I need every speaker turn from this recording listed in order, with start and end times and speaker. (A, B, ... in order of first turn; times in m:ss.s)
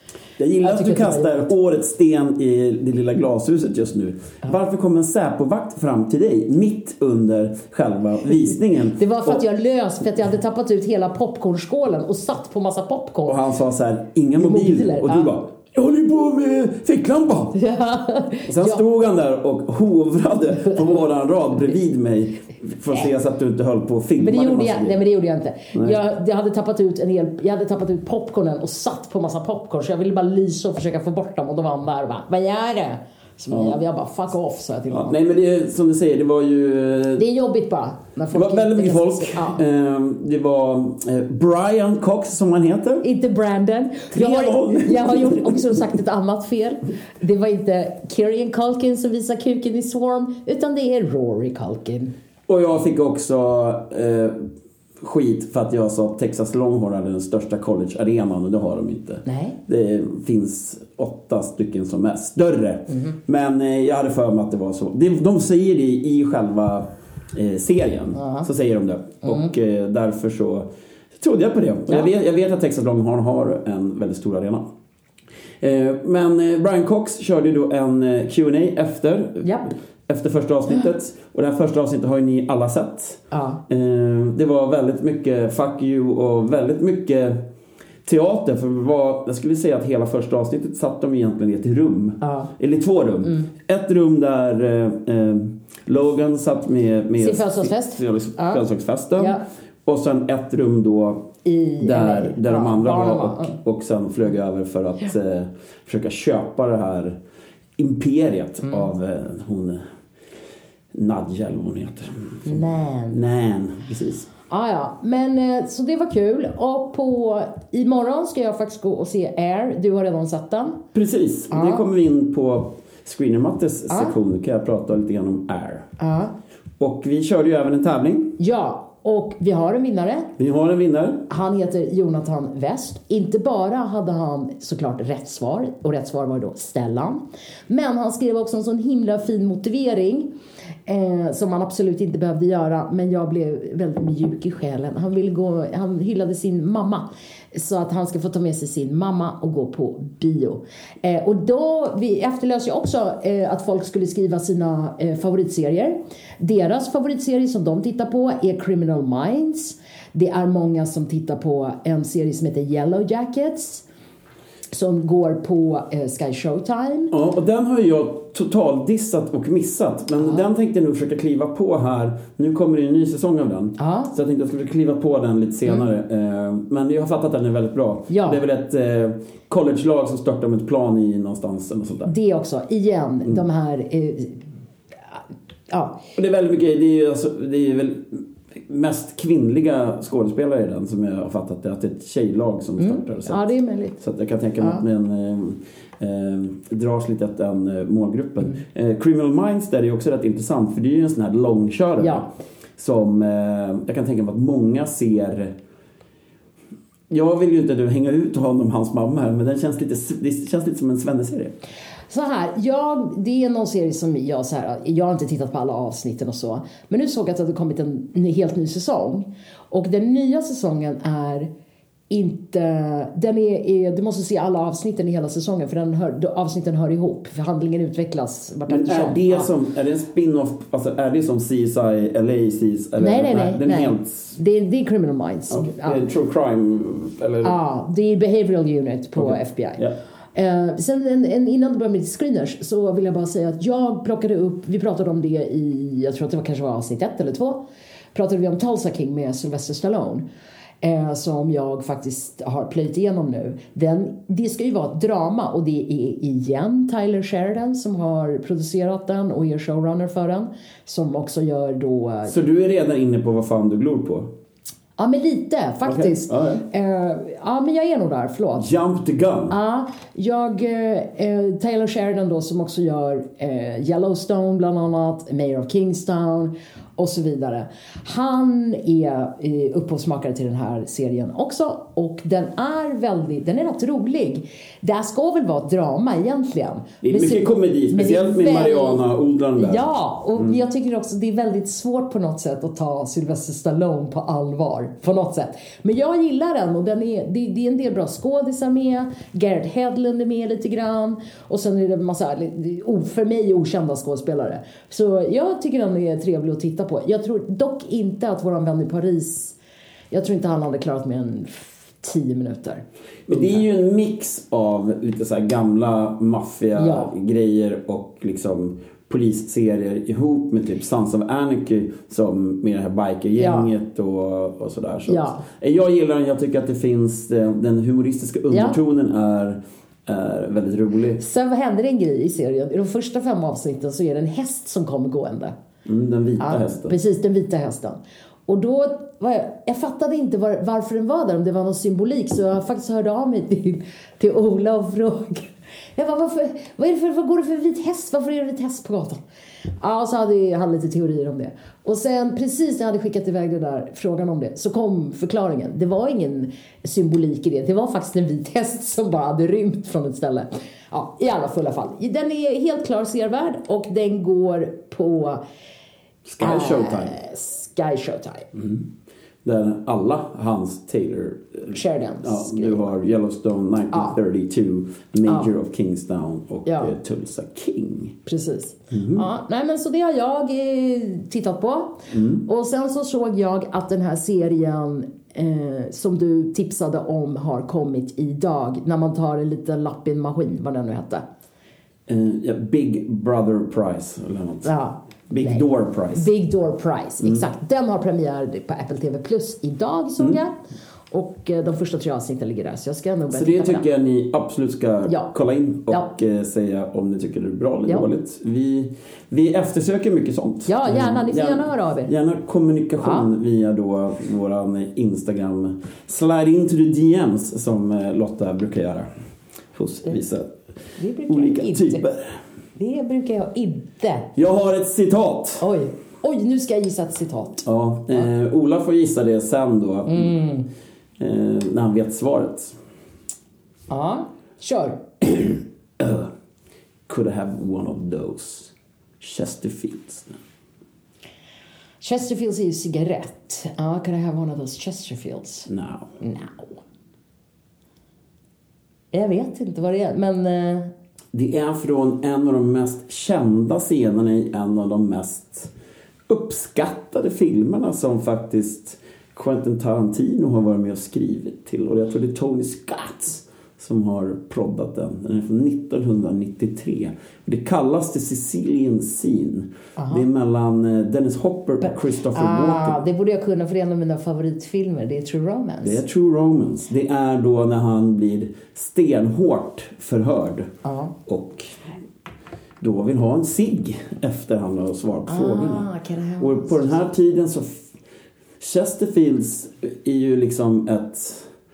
0:00.4-0:09.4 A
0:00.6-0:01.5 B
0:09.0-0:13.4 B
0:13.3-0:17.6 A
0:14.4-0:15.3 B
0:17.6-0:18.8 B
0:18.5-0:25.0 A
0:24.2-0:35.1 B
0:25.7-0:26.0 A
0:33.5-0:33.8 A
0:34.9-0:37.2 A
0:37.2-0:39.6 B
0:38.3-0:43.0 A
0:43.0-0:52.1 B
0:44.1-0:45.7 A
0:52.5-0:54.5 A
0:55.0-1:10.7 A
0:59.3-0:59.6 B
1:08.2-1:08.5 B
1:11.2-1:14.7 A
1:15.6-1:19.6 A
1:19.4-1:19.7 B
1:20.1-1:27.4 A
1:23.3-1:23.6 B
1:28.0-1:47.2 A
1:32.2-1:32.5 B
1:37.2-1:38.6 B
1:39.2-1:39.4 B
1:41.4-1:43.6 B
1:47.8-1:49.8 A
1:50.9-1:54.3 A
1:52.5-1:53.2 B
1:54.5-2:00.8 B
2:00.9-2:05.9 A
2:01.5-2:01.9 B
2:03.9-2:04.2 B
2:06.0-2:06.3 B
2:06.8-2:08.4 A
2:08.4-2:10.3 B
2:10.4-2:11.3 A
2:11.3-2:20.3 B
2:20.9-2:43.8 B
2:44.7-2:47.1 B
2:47.1-3:02.1 A
2:53.8-2:54.1 B
2:58.1-2:58.4 B
3:02.1-3:04.4 B
3:05.7-3:06.0 B
3:06.2-3:25.5 A
3:12.8-3:14.0 B
3:27.1-3:31.6 A
3:32.1-3:41.5 B
3:42.1-3:49.5 B
3:48.7-3:54.4 A
3:53.0-3:56.0 B
3:55.5-3:57.6 A
3:57.4-3:59.8 B
3:59.2-4:00.0 A
4:00.4-4:10.2 B
4:10.8-4:22.4 B
4:22.3-4:24.3 A
4:25.0-4:28.7 B
4:25.8-4:26.6 A
4:28.6-4:29.6 A
4:29.5-4:49.0 B
4:47.0-4:50.6 A
4:49.6-5:09.6 B
5:10.1-5:13.6 B
5:13.3-5:31.2 A
5:16.8-5:17.1 B
5:23.4-5:23.7 B
5:25.1-5:25.4 B
5:28.5-5:28.8 B
5:31.2-5:35.6 B
5:35.8-5:37.0 A
5:36.4-5:49.2 B
5:49.8-6:05.4 B
6:06.2-6:07.2 A
6:06.4-6:08.5 B
6:08.6-6:08.8 A
6:09.4-6:18.2 A
6:11.7-6:12.9 B
6:16.7-6:16.9 B
6:18.3-6:31.2 B
6:18.9-6:19.3 A
6:22.1-6:22.4 A
6:32.1-6:34.8 A
6:34.6-6:40.6 B
6:35.3-6:36.3 A
6:41.1-6:43.8 B
6:43.3-6:59.1 A
6:50.7-6:52.1 B
6:53.0-6:53.3 B
6:59.7-7:00.5 A
7:01.0-7:02.0 B
7:01.3-7:02.4 A
7:02.8-7:04.3 B
7:04.4-7:05.6 A
7:05.6-7:08.3 B
7:07.6-7:10.4 A
7:10.1-7:10.7 B
7:11.2-7:12.8 A
7:13.9-7:15.0 B
7:15.2-7:16.3 A
7:17.1-7:20.4 A
7:22.0-7:25.7 B
7:25.7-7:26.1 A
7:26.2-7:26.8 B
7:29.1-7:30.9 B
7:31.3-7:35.7 A
7:36.3-7:53.0 A
7:50.0-7:50.2 B
7:51.8-7:56.0 B
7:55.8-8:00.7 A
8:00.8-8:01.1 B
8:01.3-8:01.7 A
8:02.8-8:05.9 A
8:05.3-8:07.0 B
8:06.4-8:07.8 A
8:08.6-8:11.5 A